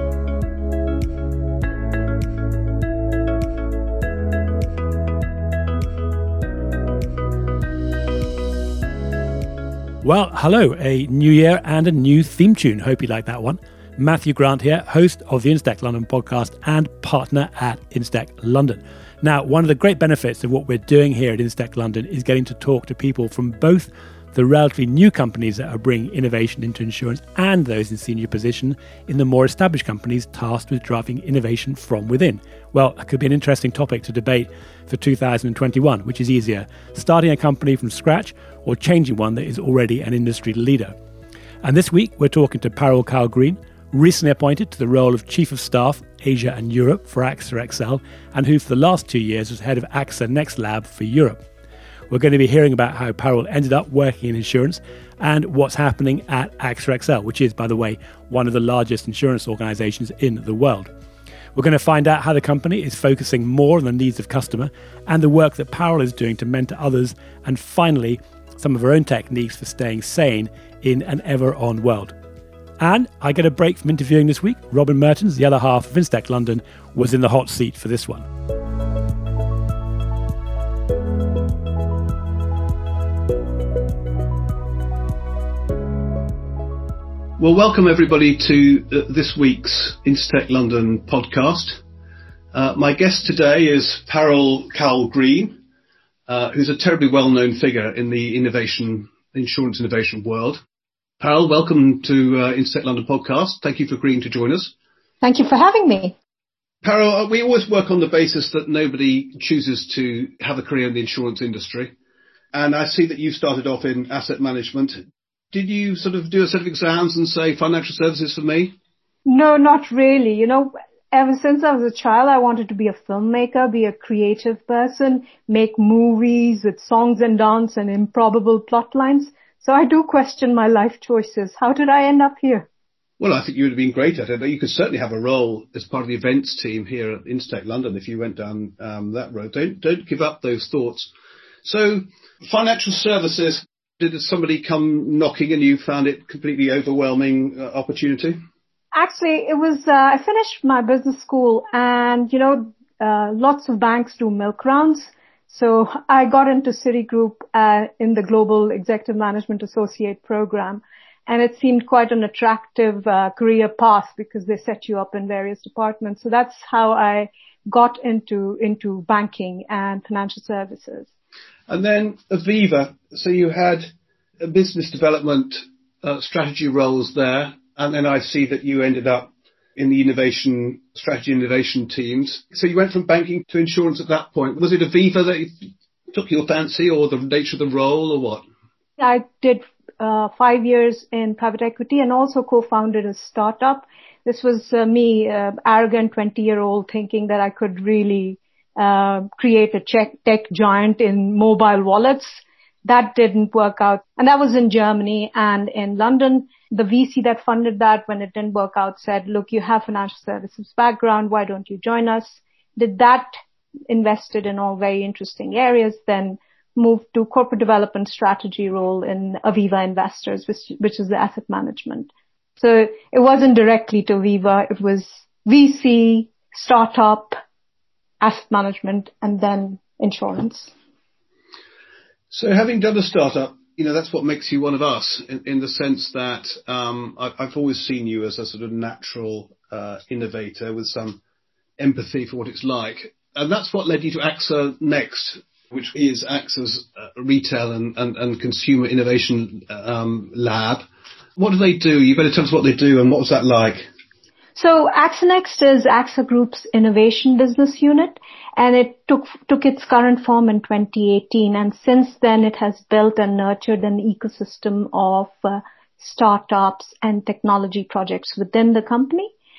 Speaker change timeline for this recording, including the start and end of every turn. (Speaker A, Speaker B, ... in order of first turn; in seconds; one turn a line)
Speaker A: 10.0-40.9
Speaker A: 41.6-51.4
Speaker A: 52.1-60.9
Speaker A: 61.5-72.1
Speaker A: 72.8-78.2
Speaker B: 87.4-91.8
Speaker B: 92.5-95.6
Speaker B: 96.3-100.6
Speaker B: 101.2-104.7
Speaker C: 105.2-106.1
Speaker B: 106.8-111.9
Speaker B: 112.5-115.0
Speaker B: 115.5-118.7
Speaker C: 119.2-132.7
Speaker B: 133.2-141.1
Speaker B: 141.6-148.4
Speaker C: 148.9-171.1
Speaker B: 171.7-185.5
Speaker B: 186.1-188.4
Speaker C: 189.0-213.3
Speaker C: 213.9-227.3
Speaker C: 228.2-230.7
Speaker B: 232.3-241.2
Speaker B: 241.8-250.8
Speaker B: 251.4-253.9
Speaker C: 254.6-269.3